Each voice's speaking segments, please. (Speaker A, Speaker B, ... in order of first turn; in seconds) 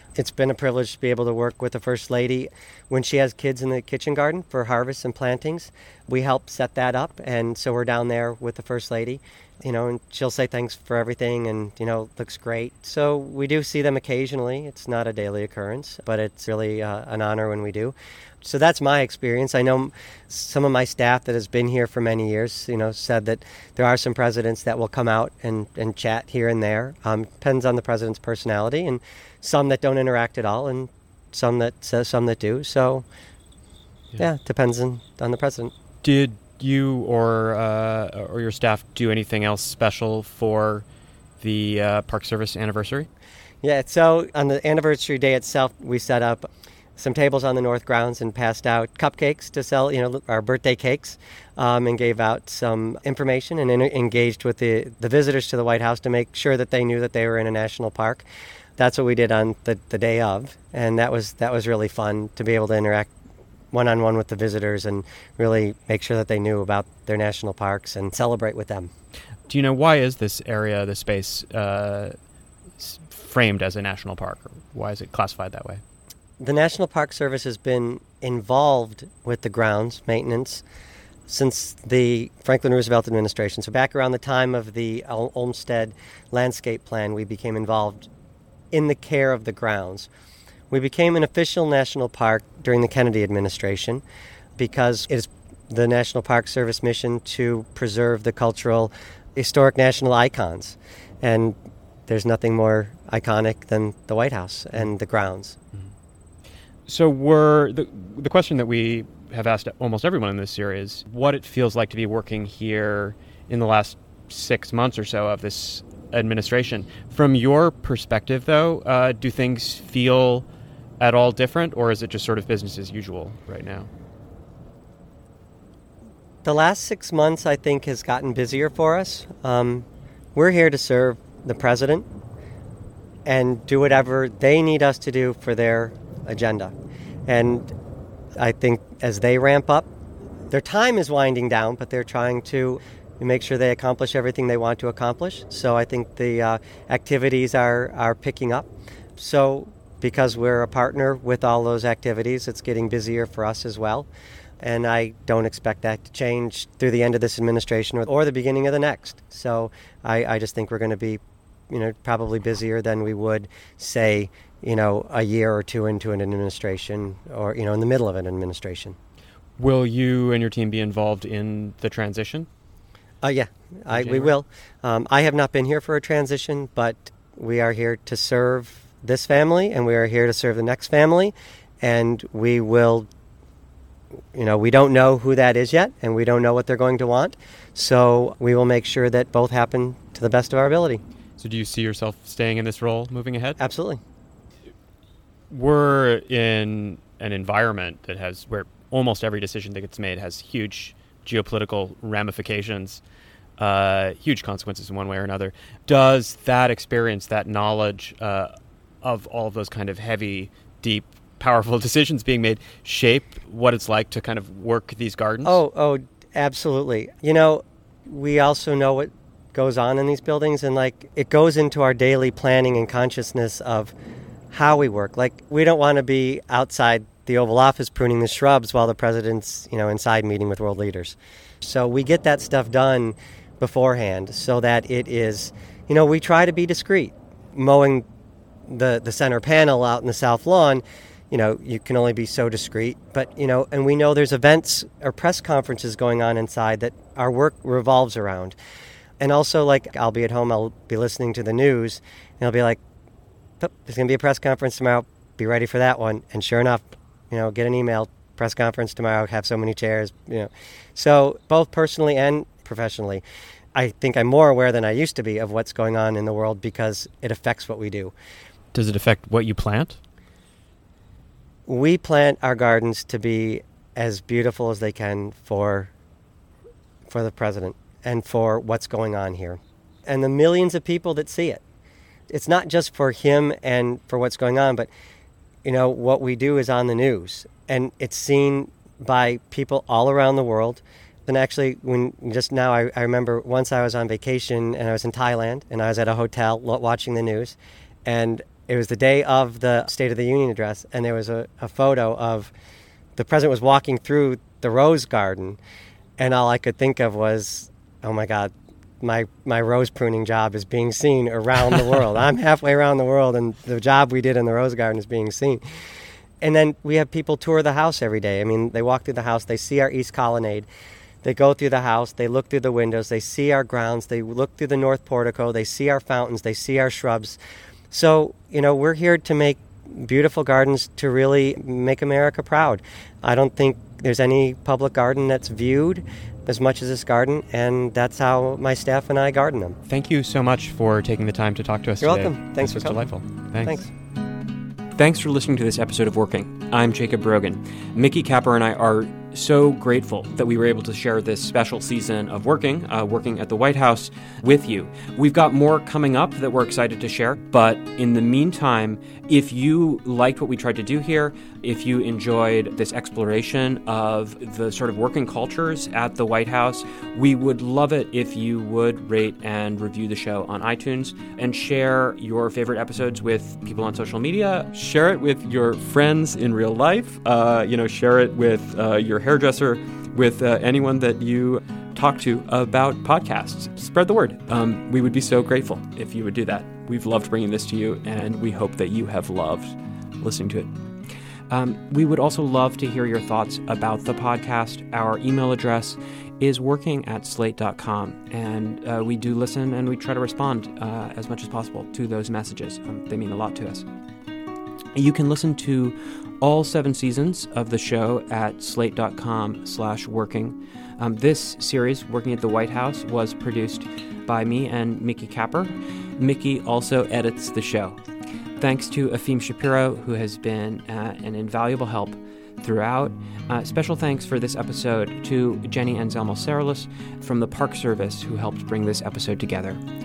Speaker A: 0.1-33.0, 34.2-35.7, 43.6-58.2, 58.8-63.1, 63.7-68.9, 76.4-80.6, 81.3-88.1, 88.7-90.1, 90.7-94.0, 94.6-105.6, 126.4-132.1, 133.2-136.7, 137.3-137.7, 138.3-139.9, 140.5-154.1, 154.6-169.0, 173.2-183.1, 184.3-191.0, 193.6-194.0, 215.4-223.9, 224.5-238.1, 238.7-248.6, 249.2-252.8, 253.6-263.2, 263.7-268.1, 271.7-275.9, 277.1-281.6, 282.3-284.9, 285.6-302.5, 303.1-305.6, 306.2-315.6, 316.4-320.7, 321.2-327.4, 327.9-339.8, 342.0-343.1, 343.6-343.9
Speaker B: 36.0-40.8, 41.4-43.1, 69.5-72.2, 72.8-75.8, 106.9-120.5, 121.0-123.9, 169.6-172.5, 173.9-174.3, 191.4-193.6, 195.5-203.0, 203.6-215.6, 268.7-270.0, 339.9-343.8, 374.9-375.7
Speaker C: 344.9-390.7, 391.5-403.9, 404.9-418.0, 418.6-429.8